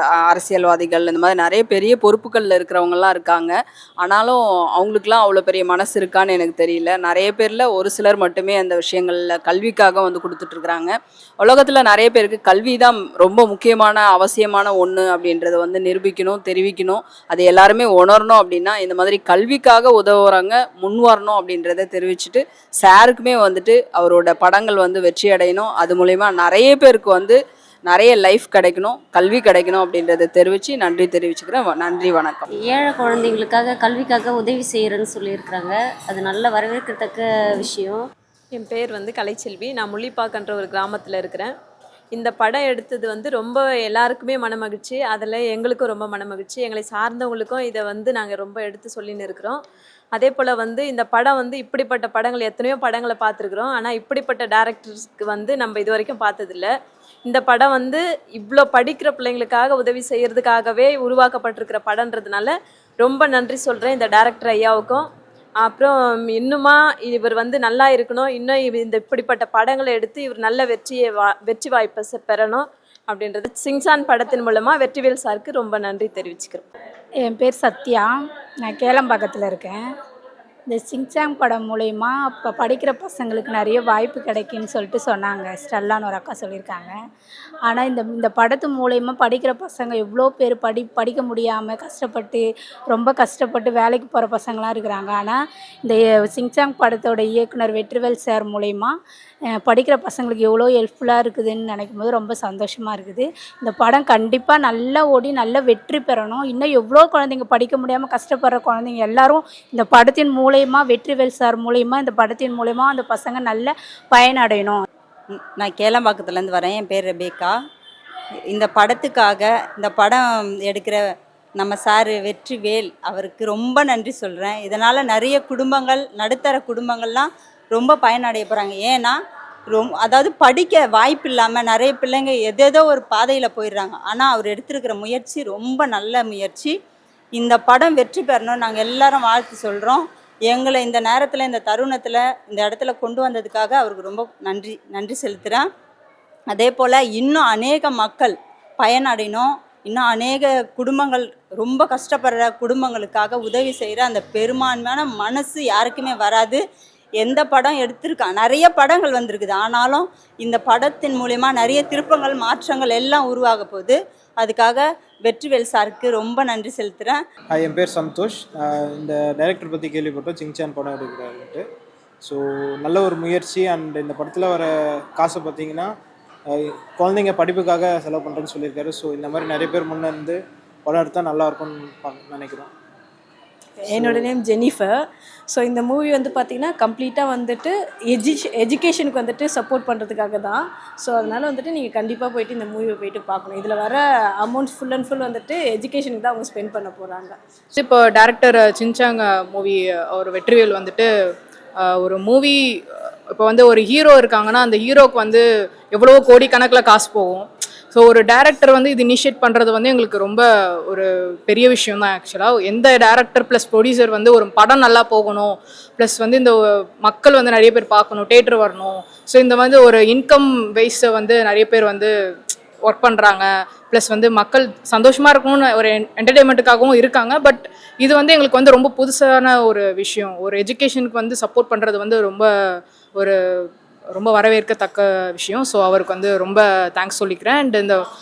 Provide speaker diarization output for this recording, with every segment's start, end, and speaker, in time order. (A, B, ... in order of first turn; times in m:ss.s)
0:00.3-0:32.4 A
0:32.5-0:38.0 B
0:38.5-0:41.5 C
0:42.1-0:49.6 C
0:50.1-0:56.7 C
0:57.3-1:05.1 C
1:05.6-1:16.7 C
1:17.2-1:18.1 D
1:18.7-1:19.8 D
1:20.7-1:27.0 D
1:27.7-1:39.0 D
1:39.6-1:54.8 D
1:55.4-1:57.6 E
1:58.5-2:01.0 E
2:01.6-2:09.2 E
2:09.7-2:16.7 E
2:17.4-2:25.7 E
2:26.5-2:36.6 E
2:37.2-2:47.2 E
2:47.5-2:51.6 F
2:52.2-2:55.9 F
2:56.5-3:02.7 F
3:03.8-3:17.4 G
3:03.9-3:04.3 F
3:17.8-3:21.1 H
3:21.8-3:22.8 H
3:23.3-3:42.1 H
3:42.8-3:58.0 H